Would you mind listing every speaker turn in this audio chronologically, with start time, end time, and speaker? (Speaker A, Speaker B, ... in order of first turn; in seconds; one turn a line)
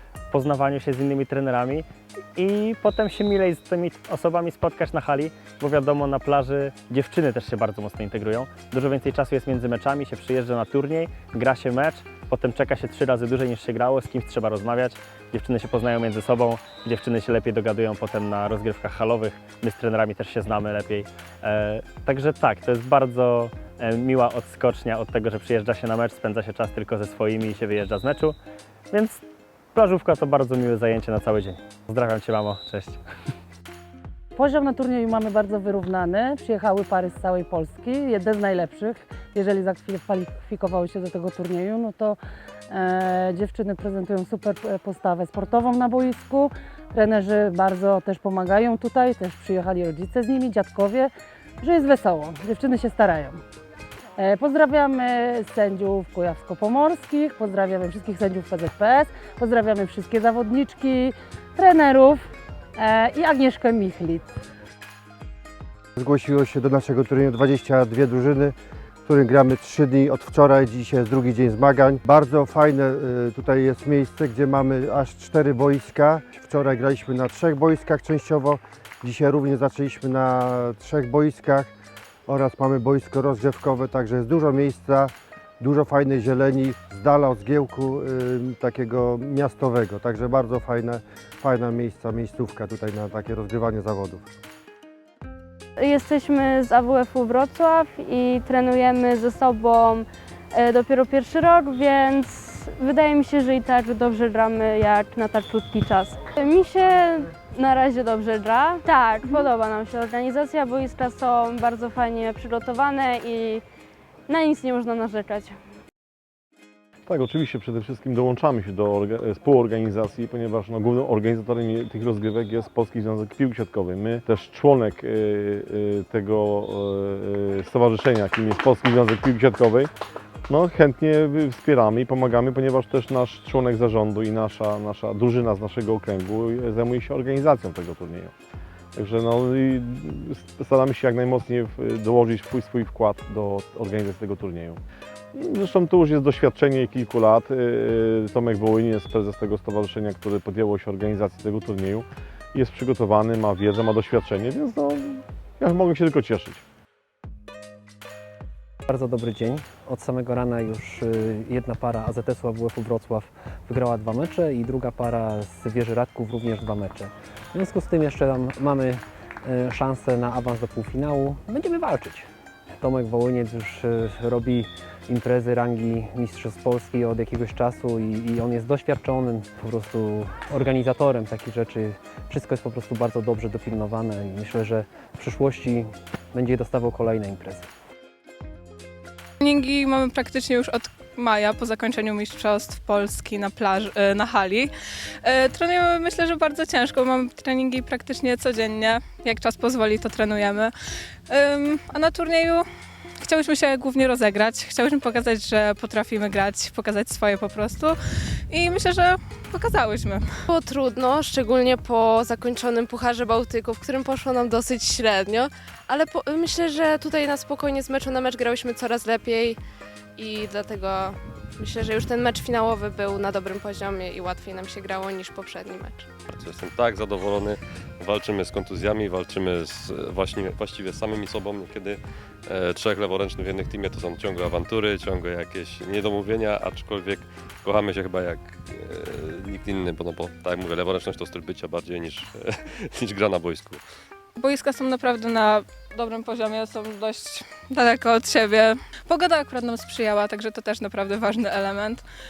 Speaker A: 0.3-28.4
Speaker A: 28.9-29.2
Speaker A: 29.7-33.0
Speaker B: 34.4-42.2
Speaker B: 42.7-53.4
Speaker B: 54.2-62.2
Speaker B: 62.8-64.3
Speaker C: 66.0-68.5
Speaker C: 69.1-81.7
Speaker C: 82.3-94.2
Speaker D: 95.8-113.6
Speaker D: 114.3-115.6
Speaker E: 117.1-129.9
Speaker E: 130.5-138.3
Speaker E: 139.0-144.8
Speaker E: 145.3-156.6
Speaker F: 158.9-172.3
Speaker F: 172.8-187.7
Speaker G: 189.4-194.7
Speaker G: 195.2-200.7
Speaker G: 201.3-202.7
Speaker G: 203.2-208.0
Speaker G: 208.5-210.2
Speaker H: 210.5-219.6
Speaker H: 220.2-226.1
Speaker I: 226.3-243.8
Speaker G: 244.4-252.0